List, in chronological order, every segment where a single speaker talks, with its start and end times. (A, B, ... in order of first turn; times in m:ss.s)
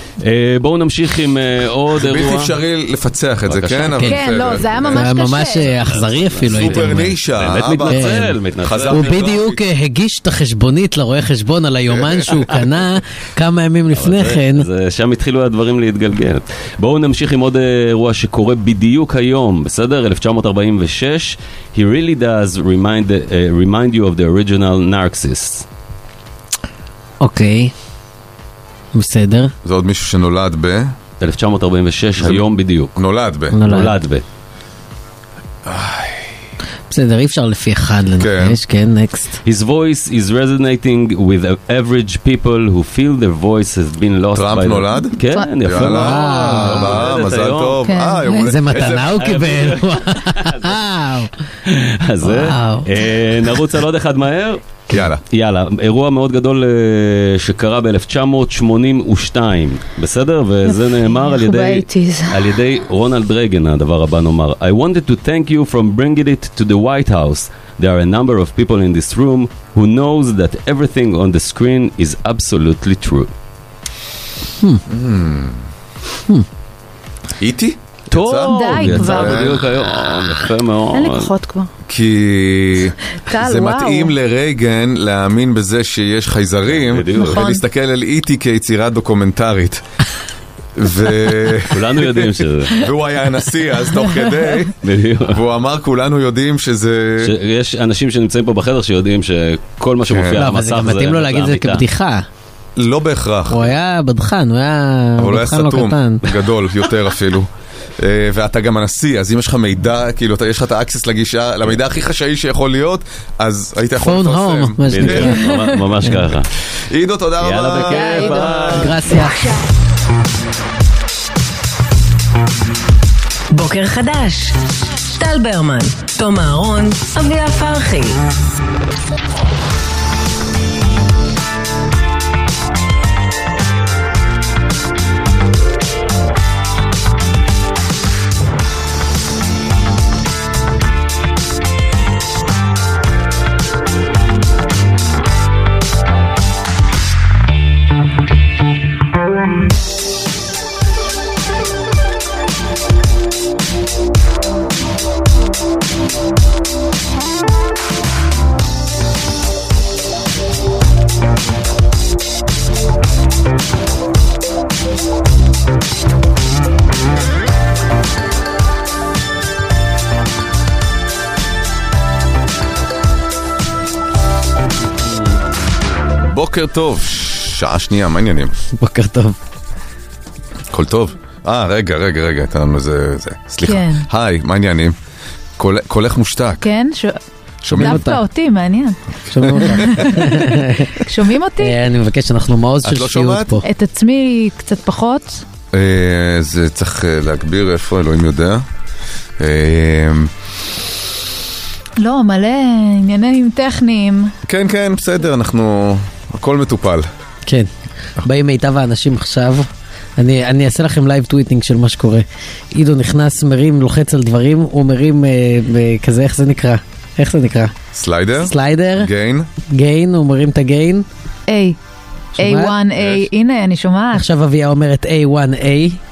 0:00.2-0:02.6 A
0:02.0-0:04.9 B
0:03.4-0:05.0 A
0:04.1-0:05.7 C
0:04.9-0:07.1 D
0:05.6-0:09.4 A
0:06.4-0:09.6 B
0:07.9-0:08.3 D
0:08.9-0:14.7 D
0:13.9-0:25.6 A
0:27.2-0:27.7 D
0:28.9-0:29.5 D
0:29.6-0:30.9 B
0:31.2-0:33.0 A
0:32.2-0:33.6 B
0:33.5-0:33.9 D
0:33.6-0:34.2 A
0:35.6-0:36.3 B
0:36.9-0:39.4 D
0:38.2-0:38.6 B
0:39.4-0:47.8 A
0:44.3-0:49.3 B
0:45.8-0:46.9 D
0:47.8-0:48.4 C
0:48.4-0:51.3 D
0:48.9-0:50.8 A
0:51.7-1:13.3 A
0:52.2-0:52.9 D
0:54.9-0:55.2 B
1:00.6-1:02.5 C
1:14.9-1:15.6 B
1:17.4-1:19.6 B
1:18.1-1:21.3 A
1:18.4-1:19.6 C
1:20.9-1:21.7 C
1:21.9-1:29.8 B
1:23.2-1:24.1 C
1:26.7-1:27.4 A
1:27.2-1:27.6 C
1:30.8-1:37.3 B
1:31.7-1:32.8 A
1:34.8-1:35.4 A
1:37.2-1:41.8 A
1:40.1-1:40.4 B
1:40.4-1:42.2 D
1:42.8-1:43.7 B
1:43.5-1:46.2 D
1:45.2-1:55.4 B
1:54.0-1:55.5 D
1:54.8-1:56.5 A
1:56.9-1:58.8 B
1:57.4-1:59.0 A
1:57.9-1:59.3 C
1:58.7-1:59.4 D
2:03.5-2:04.6 E
2:05.1-2:08.2 E
2:56.2-2:58.5 B
2:58.8-2:59.4 D
3:00.7-3:04.9 B
3:03.6-3:04.0 C
3:05.6-3:06.6 B
3:06.6-3:07.2 C
3:07.6-3:08.0 B
3:07.7-3:08.2 D
3:07.7-3:09.0 C
3:09.3-3:10.9 D
3:09.4-3:10.0 B
3:09.5-3:11.8 C
3:11.6-3:13.6 D
3:12.8-3:13.6 B
3:13.6-3:15.4 C
3:15.7-3:18.6 B
3:19.4-3:20.3 B
3:22.0-3:24.3 C
3:24.4-3:27.1 B
3:28.2-3:37.7 D
3:37.9-3:39.5 B
3:38.4-3:39.1 D
3:39.7-3:41.0 D
3:41.5-3:41.8 C
3:42.4-3:42.7 D
3:42.4-3:44.2 C
3:43.0-3:43.2 B
3:44.1-3:46.0 D